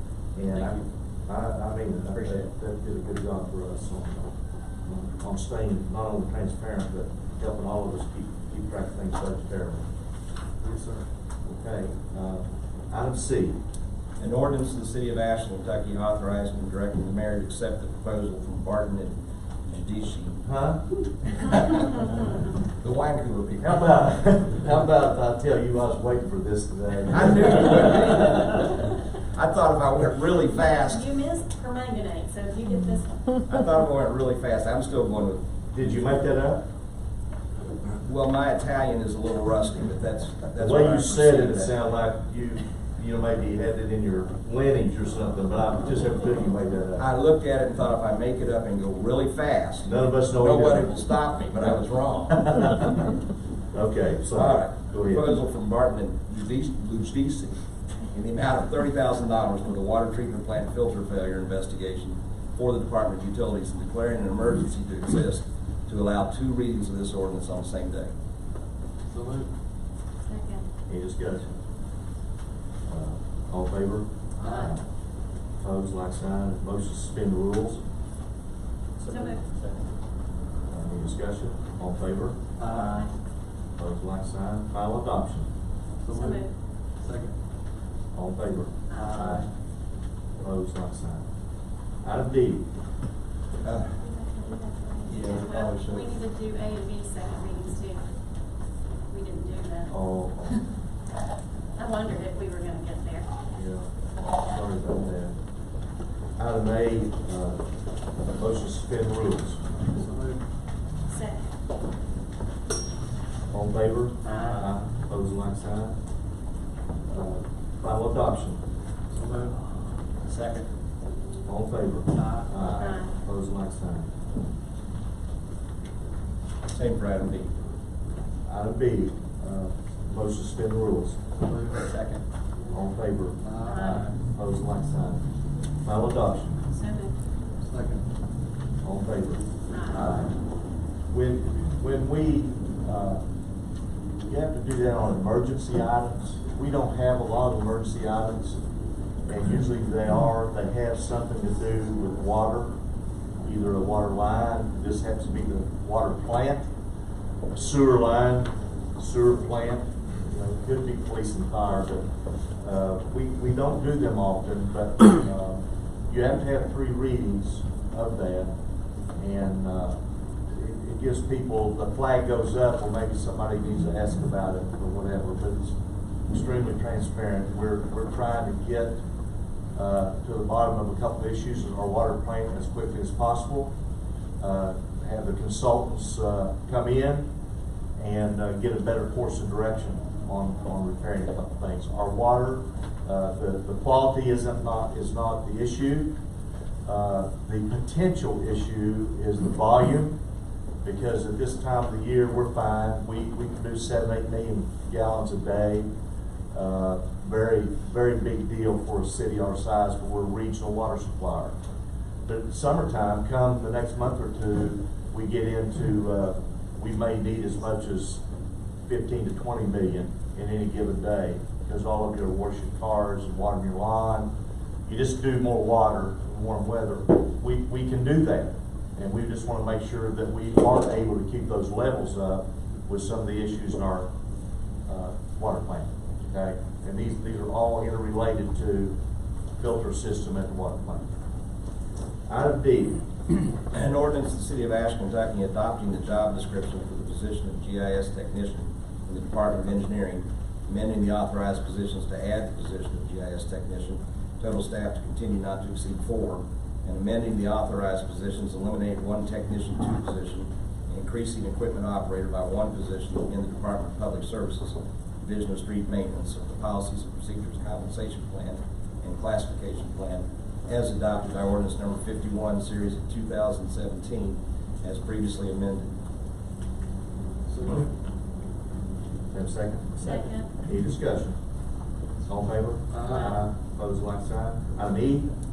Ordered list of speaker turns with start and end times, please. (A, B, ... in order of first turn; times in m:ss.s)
0:00.3-0:04.3 A
0:02.1-0:02.4 B
0:04.8-0:09.9 A
0:10.6-0:11.0 C
0:11.4-0:13.6 A
0:14.2-0:20.4 B
0:20.4-0:20.8 A
0:21.4-0:23.9 B
0:23.6-0:27.9 A
0:27.1-0:31.1 B
0:30.7-0:33.2 D
0:33.4-0:35.4 B
0:35.7-0:36.6 A
0:38.0-0:41.8 B
0:40.6-0:47.0 A
0:47.0-0:53.0 B
0:49.8-0:51.0 A
0:52.4-0:52.9 A
0:53.7-0:55.3 A
0:54.3-0:57.5 B
0:58.1-1:08.1 B
1:09.1-1:09.5 C
1:10.2-1:10.6 D
1:10.9-1:11.4 A
1:12.8-1:14.8 A
1:14.4-1:14.7 D
1:14.4-1:14.7 C
1:15.6-1:17.8 A
1:19.1-1:19.4 D
1:19.5-1:19.8 B
1:20.7-1:22.4 A
1:22.6-1:23.1 C
1:22.6-1:23.1 D
1:23.8-1:25.5 A
1:26.0-1:26.4 C
1:26.1-1:26.5 D
1:27.0-1:27.3 C
1:28.1-1:29.5 A
1:28.9-1:29.2 D
1:30.4-1:31.2 A
1:32.0-1:32.6 A
1:33.6-1:34.0 B
1:34.0-1:38.1 D
1:35.1-1:36.0 B
1:39.1-1:40.0 D
1:39.9-1:40.6 A
1:41.7-1:43.3 D
1:43.5-1:45.4 A
1:46.4-1:47.6 A
1:48.2-1:49.6 A
1:49.8-1:50.4 C
1:51.1-1:51.4 D
1:53.5-1:55.9 A
1:54.2-1:54.6 D
1:57.1-1:58.6 A
1:59.1-1:59.5 C
2:00.3-2:00.6 B
2:01.4-2:04.1 A
2:02.8-2:03.1 D
2:06.7-2:07.5 B
2:08.4-2:11.2 A
2:11.4-2:11.9 C
2:11.9-2:12.2 B
2:12.7-2:15.2 A
2:13.4-2:14.1 C
2:13.6-2:14.0 D
2:15.8-2:16.6 A
2:16.7-2:17.1 D
2:17.6-2:18.0 C
2:18.8-2:19.4 A
2:19.7-2:20.1 D
2:20.0-2:20.2 C
2:21.1-2:23.2 A
2:24.2-2:28.6 A
2:29.2-2:32.7 A
2:33.4-2:36.7 A
2:37.5-2:42.1 A
2:42.6-2:48.5 A
2:49.2-2:55.8 A
2:56.3-2:59.0 A
2:59.7-3:03.7 A
3:04.4-3:07.3 A
3:08.0-3:16.1 A
3:16.8-3:20.1 A
3:20.8-3:25.8 A
3:26.5-3:31.5 A
3:32.3-3:38.2 A
3:38.8-3:44.3 A
3:44.9-3:54.1 A
3:54.9-3:58.9 A
3:59.6-4:01.0 A
4:02.3-4:03.0 A
4:03.5-4:35.9 B
4:37.5-4:37.9 C
4:39.3-4:41.4 A
4:40.0-4:40.5 D
4:42.2-4:45.3 A
4:42.9-4:43.4 C